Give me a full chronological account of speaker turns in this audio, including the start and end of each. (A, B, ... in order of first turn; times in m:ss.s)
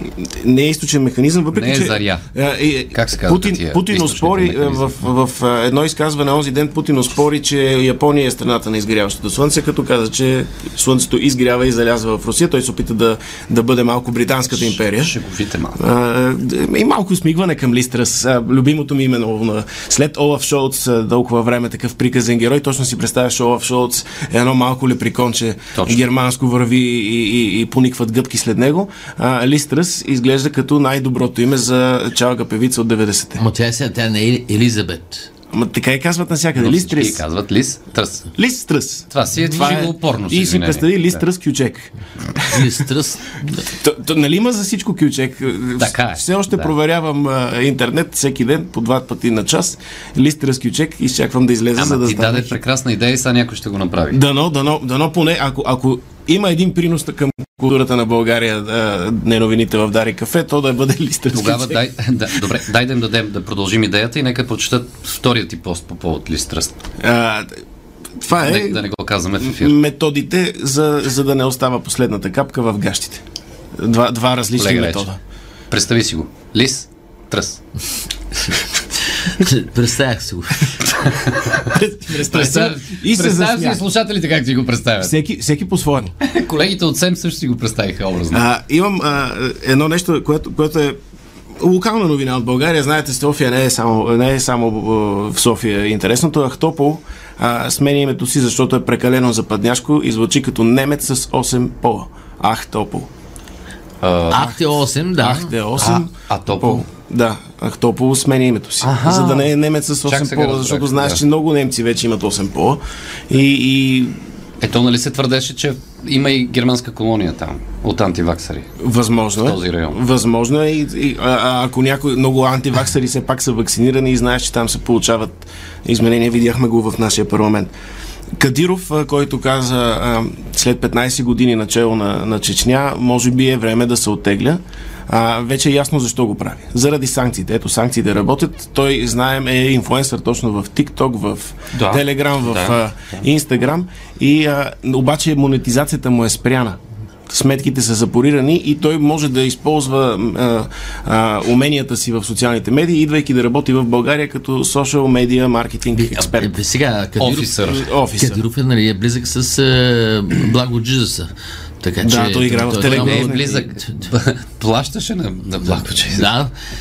0:00.2-0:15.2 A
0:01.5-0:02.3 B
0:02.9-0:05.1 B
0:14.5-0:15.8 B
0:15.8-0:33.4 A
0:25.8-0:26.0 B
0:33.4-0:35.3 C
0:35.5-0:37.2 A
0:36.6-0:38.3 B
0:38.4-0:42.7 A
0:39.1-0:41.2 B
0:42.5-0:43.6 C
0:43.7-0:52.6 A
0:45.8-0:46.7 B
0:51.8-0:54.2 B
0:54.1-1:01.8 A
1:01.3-1:06.8 B
1:07.0-1:07.5 A
1:08.2-1:08.8 A
1:08.3-1:09.8 B
1:09.4-1:13.2 A
1:13.8-1:15.2 A
1:14.6-1:15.1 B
1:15.7-1:17.6 B
1:19.3-1:20.7 C
1:21.2-1:21.7 B
1:21.7-1:23.8 A
1:22.3-1:25.2 B
1:25.0-1:26.1 A
1:26.2-1:28.4 B
1:28.3-1:31.0 A
1:31.6-1:43.1 A
1:44.0-1:44.5 B
1:44.3-1:45.6 C
1:44.4-1:44.6 A
1:45.2-1:54.2 A
1:45.8-1:46.8 B
1:48.8-1:49.5 B
1:50.0-1:51.2 B
1:54.6-1:58.7 B
1:58.8-2:07.7 A
1:59.4-2:00.0 B
2:08.4-2:36.5 A
2:21.7-2:23.2 B
2:35.9-2:37.6 C
2:37.2-2:37.9 B
2:37.6-2:38.4 A
2:38.2-2:43.7 C
2:42.0-2:43.6 A
2:42.8-2:46.3 B
2:45.7-2:46.5 C